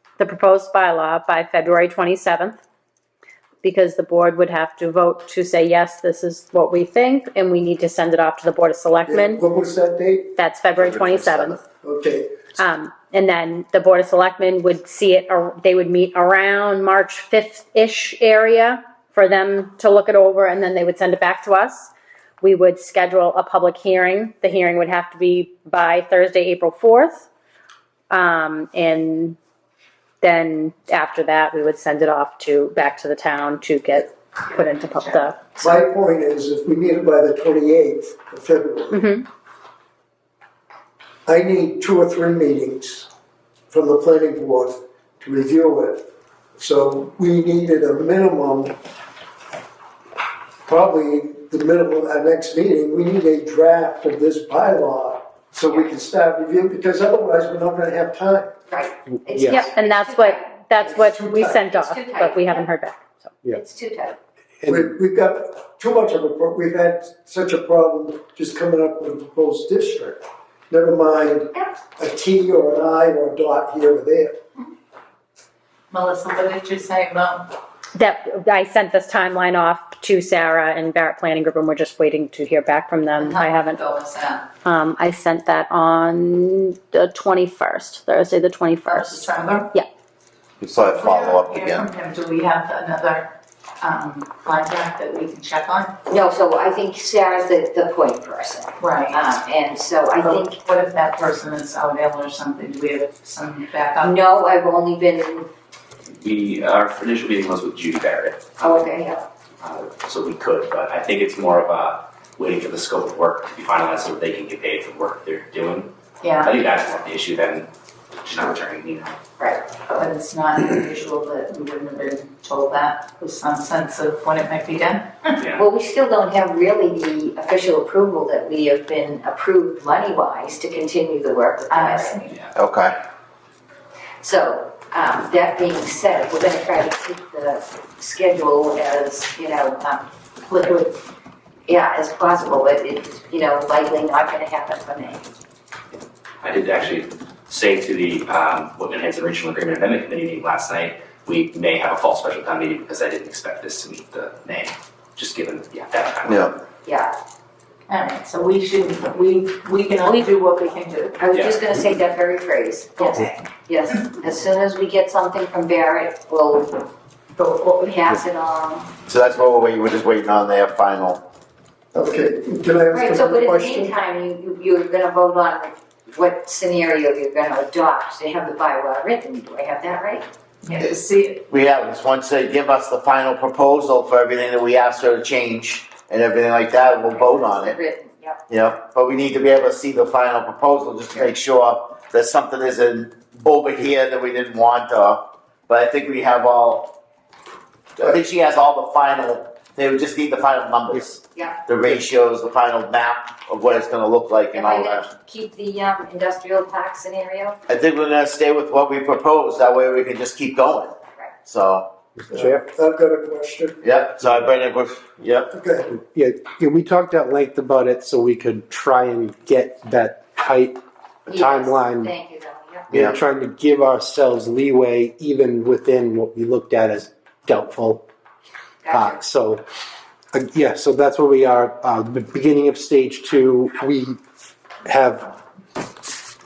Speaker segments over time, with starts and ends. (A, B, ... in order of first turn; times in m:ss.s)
0:00.2-0:02.6 A
0:03.6-0:09.4 A
0:09.0-0:10.4 B
0:10.4-0:11.6 A
0:10.8-0:11.6 C
0:11.8-0:12.5 B
0:12.6-0:27.3 A
0:28.1-0:29.4 A
0:30.2-0:35.4 A
0:34.6-0:35.3 D
0:35.6-0:39.0 B
0:38.9-0:39.2 A
0:41.2-0:43.1 B
0:43.7-0:46.0 B
0:46.6-0:48.7 B
0:50.6-0:58.5 B
0:58.7-1:00.5 E
0:59.1-0:59.7 F
0:59.5-1:03.3 A
1:00.8-1:01.6 B
1:01.6-1:02.7 E
1:03.5-1:04.2 E
1:04.6-1:04.9 F
1:04.7-1:14.4 B
1:15.9-1:17.5 D
1:17.9-1:23.8 A
1:23.2-1:24.5 D
1:24.6-1:29.9 A
1:28.8-1:29.7 D
1:30.6-1:31.9 C
1:30.8-1:36.0 D
1:36.1-1:40.6 E
1:38.8-1:39.4 D
1:40.2-1:44.2 D
1:44.0-1:45.5 E
1:46.1-1:48.8 G
1:48.6-1:49.2 E
1:49.6-1:57.7 G
1:56.2-1:56.6 D
1:58.2-1:59.2 G
1:59.4-1:59.8 E
1:59.9-2:05.4 D
2:05.4-2:05.7 G
2:05.5-2:12.2 E
2:11.7-2:12.4 D
2:12.5-2:12.9 C
2:14.2-2:20.0 E
2:19.8-2:21.0 D
2:21.7-2:25.3 E
2:26.4-2:36.6 G
2:36.2-2:36.5 C
2:36.8-2:37.1 E
2:37.9-2:41.2 D
2:40.0-2:40.4 E
2:41.2-2:46.8 E
2:41.3-2:41.6 G
2:47.4-2:48.0 D
2:47.8-2:48.9 E
2:49.1-2:51.2 C
2:51.9-2:53.9 B
2:52.9-3:00.3 E
3:00.6-3:01.4 D
3:01.5-3:07.8 C
3:07.1-3:08.4 E
3:08.5-3:16.9 C
3:18.0-3:25.1 C
3:21.3-3:21.6 E
3:24.5-3:27.6 E
3:27.7-3:31.9 C
3:32.3-3:32.6 F
3:32.3-3:33.8 B
3:33.8-3:35.5 C
3:35.5-3:35.9 B
3:35.9-3:42.1 F
3:41.3-3:43.0 E
3:42.9-3:48.0 F
3:42.9-3:43.2 C
3:48.8-3:49.2 E
3:48.9-3:49.6 F
3:50.3-3:54.2 F
3:54.8-3:55.3 F